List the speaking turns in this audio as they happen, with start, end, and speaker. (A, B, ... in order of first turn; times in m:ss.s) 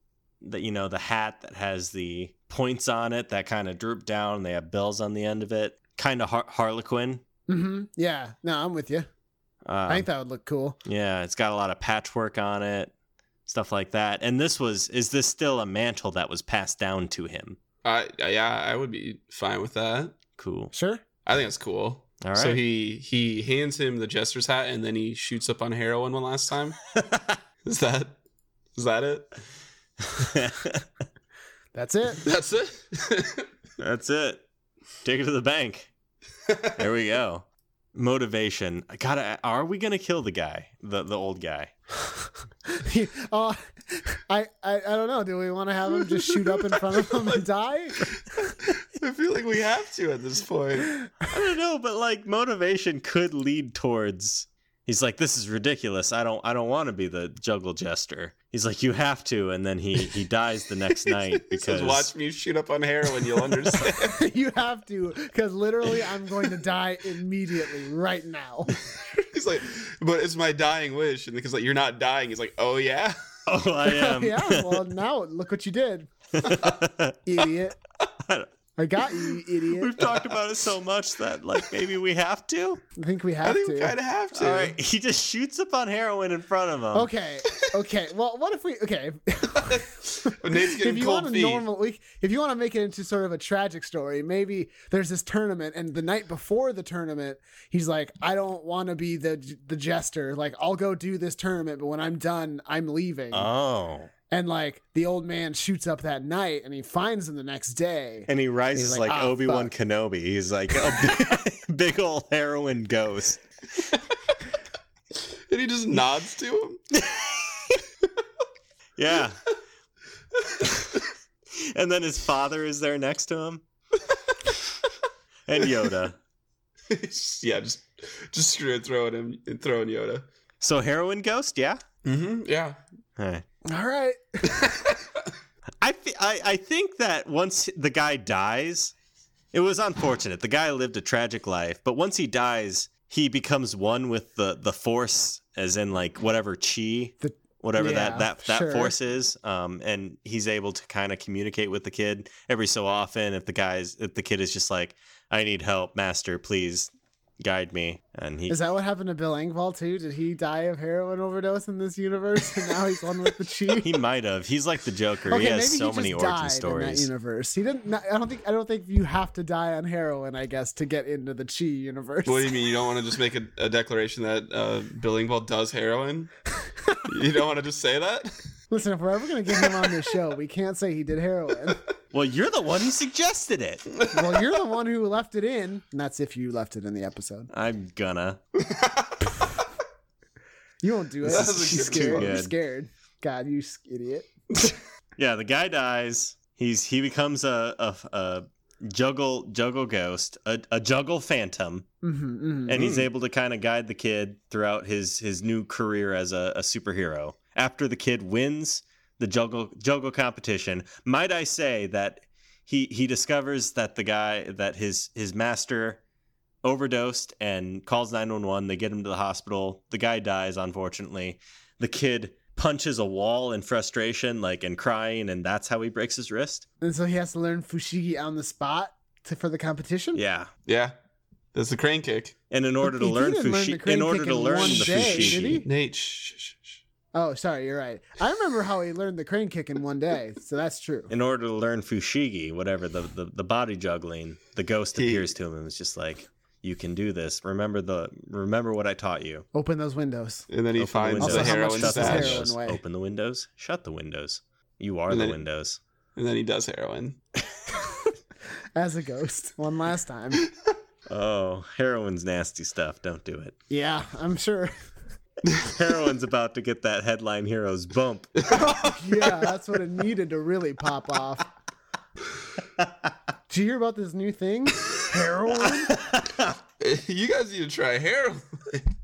0:00.4-0:07.2 A
0:07.5-0:09.1 B
0:09.6-0:10.1 A
0:09.9-0:10.8 B
0:10.8-0:12.9 A
0:13.4-0:17.6 A
0:17.8-0:20.2 C
0:20.4-0:20.7 A
0:20.7-0:21.0 B
0:21.2-0:26.8 C
0:22.2-0:22.6 A
0:26.9-0:27.4 A
0:27.6-0:28.2 C
0:28.7-0:29.4 C
0:30.0-0:30.8 A
0:31.7-0:32.2 B
0:32.2-0:33.5 C
0:33.8-0:34.4 A
0:35.0-0:35.9 A
0:36.5-0:36.8 C
0:36.8-0:41.7 A
0:42.7-0:48.1 B
0:48.7-0:50.9 C
0:51.2-1:02.1 A
1:01.1-1:04.2 C
1:03.9-1:08.8 B
1:08.8-1:13.2 C
1:13.5-1:14.8 A
1:13.8-1:16.1 B
1:16.3-1:17.3 A
1:17.2-1:17.8 B
1:18.2-1:18.5 A
1:18.8-1:20.0 B
1:19.7-1:22.8 A
1:20.0-1:20.4 C
1:23.0-1:23.9 B
1:23.4-1:24.8 C
1:24.3-1:27.1 A
1:26.9-1:43.5 B
1:29.5-1:31.6 C
1:43.3-1:44.1 A
1:44.3-1:49.7 B
1:48.3-1:53.4 A
1:55.5-1:56.8 C
1:56.9-1:57.8 A
1:59.0-1:59.4 A
2:00.6-2:00.9 A
2:01.5-2:03.6 A
2:05.5-2:06.2 A
2:06.9-2:10.2 C
2:10.6-2:11.8 A
2:12.0-2:12.8 C
2:13.2-2:13.4 A
2:13.7-2:14.6 B
2:14.5-2:15.0 C
2:15.8-2:18.9 A
2:19.5-2:38.6 A
2:27.2-2:28.9 B
2:38.5-2:44.0 B
2:43.8-2:47.1 A
2:45.3-2:52.5 B
2:52.2-2:56.3 C
2:57.0-2:58.4 C
2:58.7-3:01.8 B
2:59.6-2:59.9 C
3:02.1-3:03.8 A
3:04.1-3:07.5 B
3:07.5-3:08.4 A
3:08.6-3:09.3 C
3:10.8-3:14.3 B
3:11.2-3:12.4 C
3:11.2-3:12.5 A
3:15.2-3:21.9 A
3:22.0-3:23.0 B
3:22.7-3:36.0 A
3:36.6-3:46.6 A
3:46.8-3:50.2 B
3:50.1-3:50.5 A
3:50.6-3:50.9 C
3:51.5-3:52.3 C
3:52.5-3:55.6 A
3:52.8-3:55.7 B
3:54.6-3:56.8 C
3:57.1-4:01.1 B
4:01.1-4:09.4 A
4:04.9-4:05.3 C
4:09.5-4:10.5 B
4:10.5-4:12.5 C
4:10.8-4:15.8 A
4:11.2-4:12.8 B
4:15.1-4:15.4 C
4:16.2-4:17.2 C
4:18.8-4:20.4 B
4:21.1-4:23.5 A
4:23.7-4:24.7 B
4:25.5-4:25.7 C
4:25.6-4:28.3 A
4:28.4-4:29.5 C
4:28.5-4:31.5 B
4:33.5-4:36.0 B
4:35.6-4:36.6 A
4:36.8-4:38.8 C